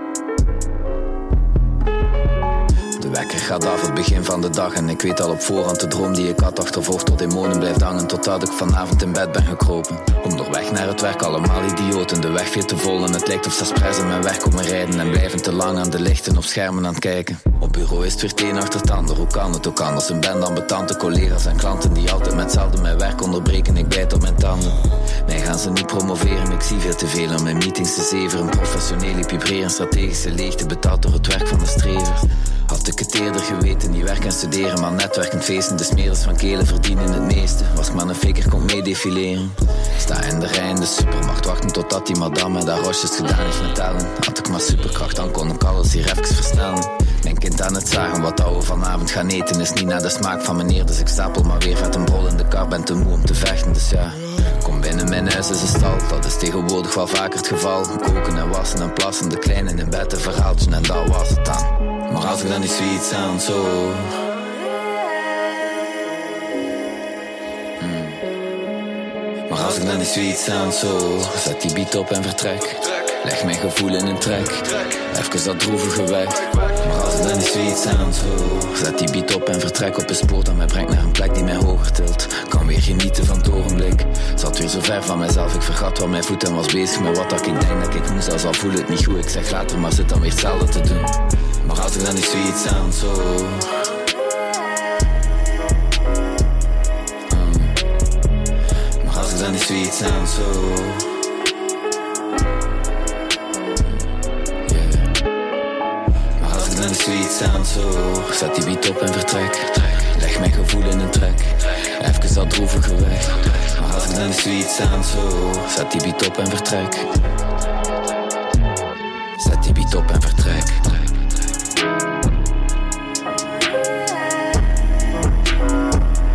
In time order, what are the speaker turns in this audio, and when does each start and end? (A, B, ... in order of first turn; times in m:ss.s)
0:03.0-1:04.2 A
1:07.8-1:08.2 A
1:09.5-1:34.0 A
1:37.3-1:37.8 A
1:39.0-1:41.2 A
1:44.6-1:45.1 A
1:46.4-1:57.1 A
1:59.4-2:01.1 A